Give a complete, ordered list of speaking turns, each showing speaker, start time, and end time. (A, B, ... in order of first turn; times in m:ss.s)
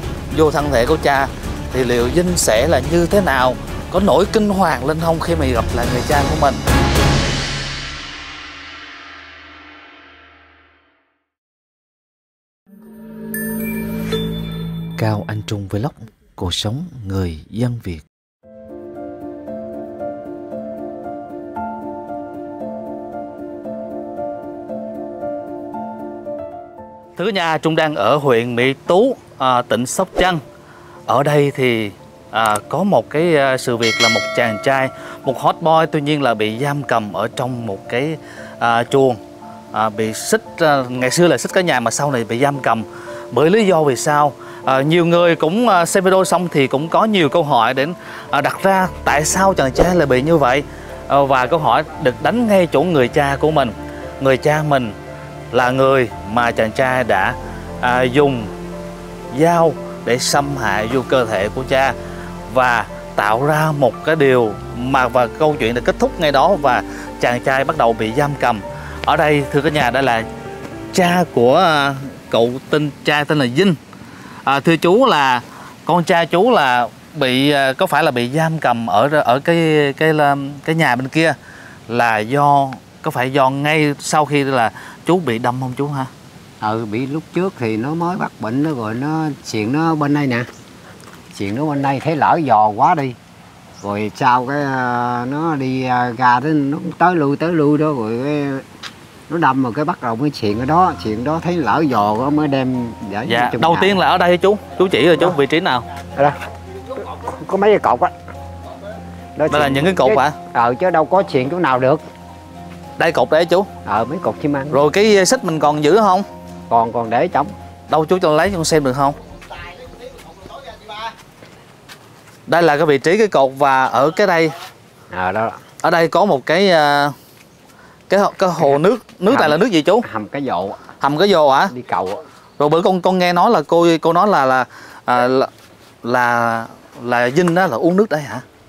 0:00.3-0:06.6 A
0:15.0-0:18.0 A
0:27.2-0:30.4 A
0:31.1-0:39.2 A
0:39.7-0:54.9 A
0:55.5-0:58.5 A
0:59.3-1:02.0 A
1:02.5-1:10.3 A
1:10.9-1:13.8 A
1:14.4-1:21.4 A
1:21.9-1:26.1 A
1:26.6-1:30.5 B
1:31.3-1:33.2 B
1:33.8-1:38.6 B
1:39.3-1:44.0 B
1:43.3-1:45.8 A
1:46.9-1:48.1 B
1:49.4-1:52.0 B
1:49.5-1:50.4 A
1:53.0-1:53.7 A
1:53.8-1:54.8 B
1:54.7-1:56.2 A
1:56.7-1:57.5 B
1:57.9-1:59.2 A
2:02.5-2:04.5 A
2:05.1-2:05.6 B
2:05.8-2:07.2 A
2:08.1-2:10.0 A
2:08.6-2:10.9 B
2:11.0-2:11.7 A
2:11.7-2:12.2 B
2:12.6-2:15.5 A
2:16.0-2:18.4 A